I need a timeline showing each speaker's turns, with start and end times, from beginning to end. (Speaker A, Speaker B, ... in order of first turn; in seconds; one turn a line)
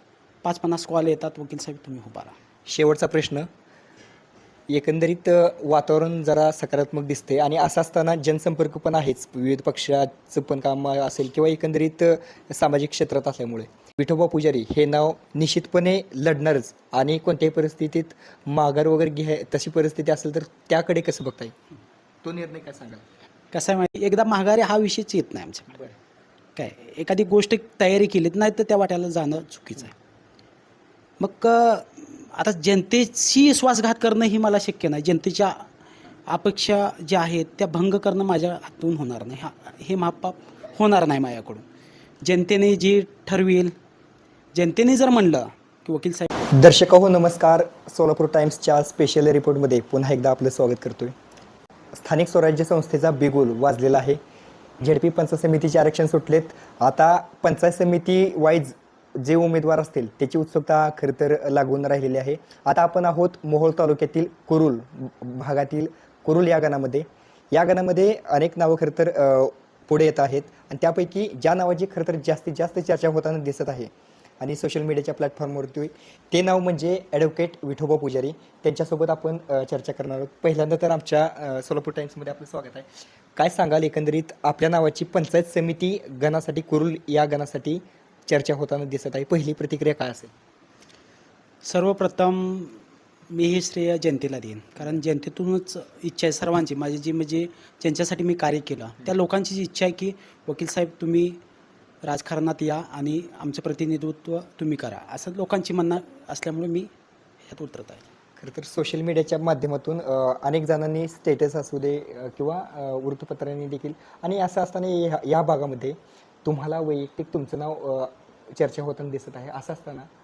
Speaker A: 0.4-2.4
Speaker B: 2.7-3.5
Speaker B: 4.7-21.6
Speaker B: 22.2-23.0
Speaker A: 23.5-25.9
Speaker A: 26.6-29.9
Speaker A: 31.2-35.7
Speaker A: 36.3-41.6
Speaker A: 42.2-43.7
Speaker A: 44.5-46.3
Speaker B: 46.5-51.1
Speaker B: 51.9-54.2
Speaker B: 54.8-73.9
Speaker B: 74.4-90.3
Speaker A: 91.6-92.8
Speaker A: 93.3-101.4
Speaker A: 102.0-106.9
Speaker A: 107.5-108.0
Speaker B: 108.4-120.1